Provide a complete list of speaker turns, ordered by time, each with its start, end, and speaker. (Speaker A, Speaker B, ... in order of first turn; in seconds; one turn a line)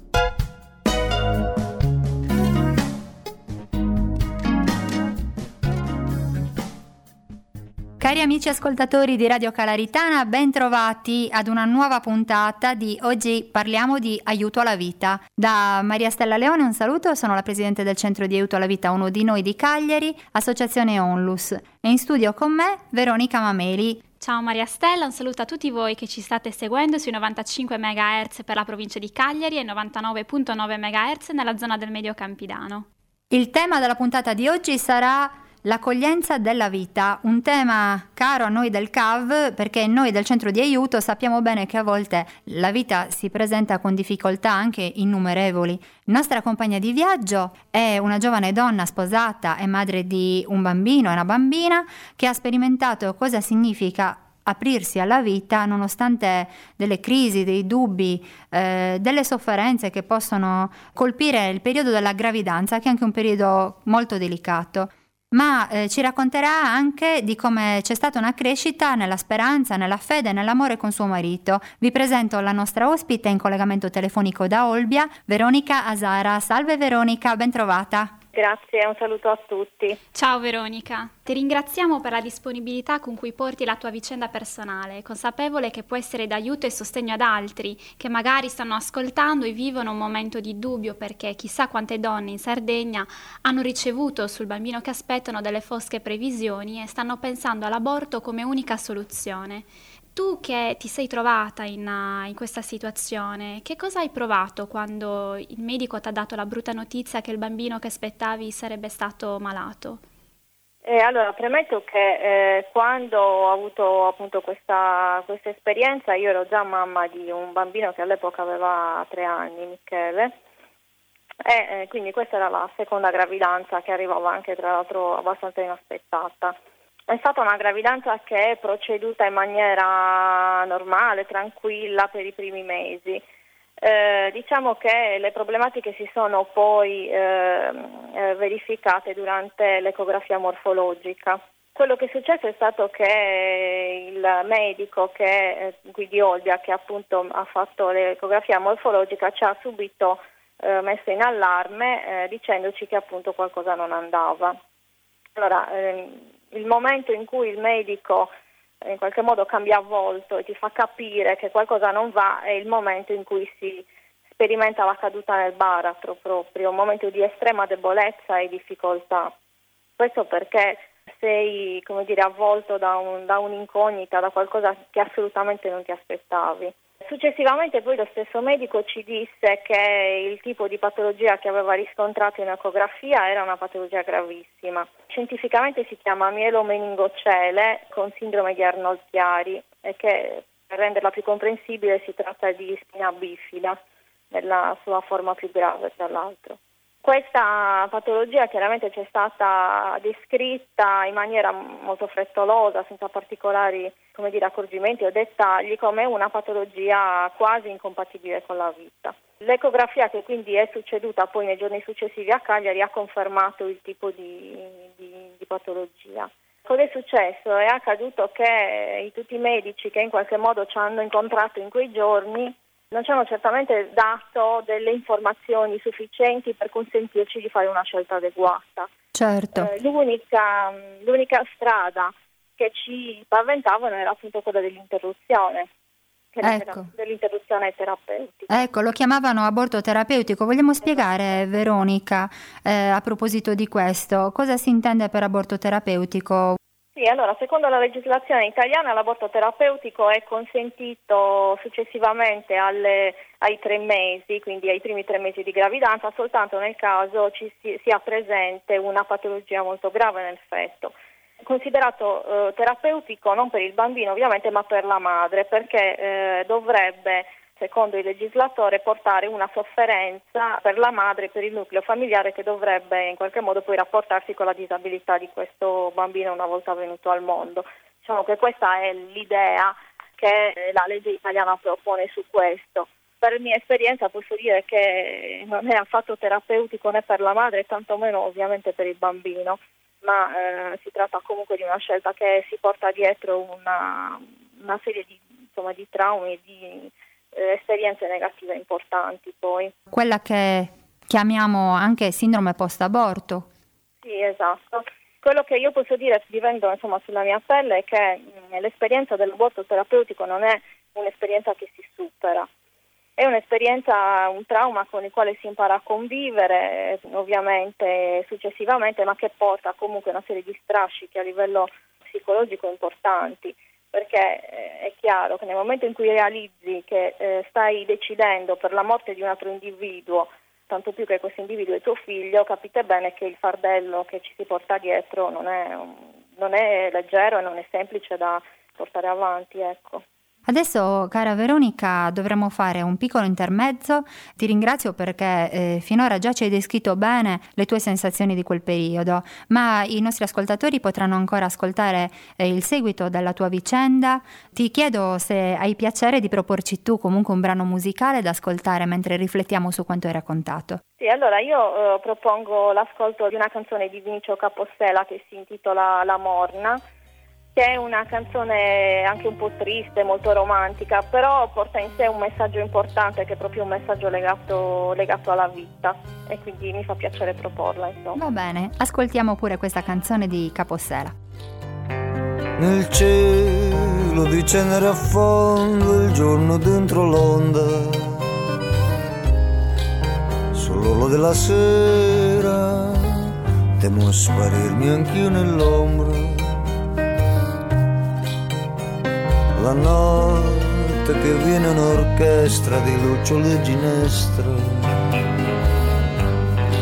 Speaker A: 8.0-24.0
Speaker B: 24.2-32.9
Speaker A: 33.3-78.1
Speaker C: 78.3-80.0
Speaker B: 80.1-110.0
Speaker C: 110.8-120.4
Speaker C: 121.5-126.6
Speaker C: 127.1-133.2
Speaker C: 133.8-154.6
Speaker C: 155.3-158.3
Speaker C: 158.8-169.3
Speaker C: 170.0-193.8
Speaker C: 194.3-228.9
Speaker A: 229.1-229.7
Speaker C: 229.6-235.7
Speaker C: 236.3-238.6
Speaker A: 236.4-236.9
Speaker A: 238.5-246.6
Speaker C: 246.9-299.7
Speaker A: 299.9-303.5
Speaker C: 304.0-312.5
Speaker C: 313.2-340.0
Speaker A: 340.5-360.8
Speaker C: 361.0-366.8
Speaker C: 367.5-378.2
Speaker A: 378.1-381.1
Speaker D: 382.6-388.3
Speaker D: 390.5-396.7
Speaker D: 399.6-405.3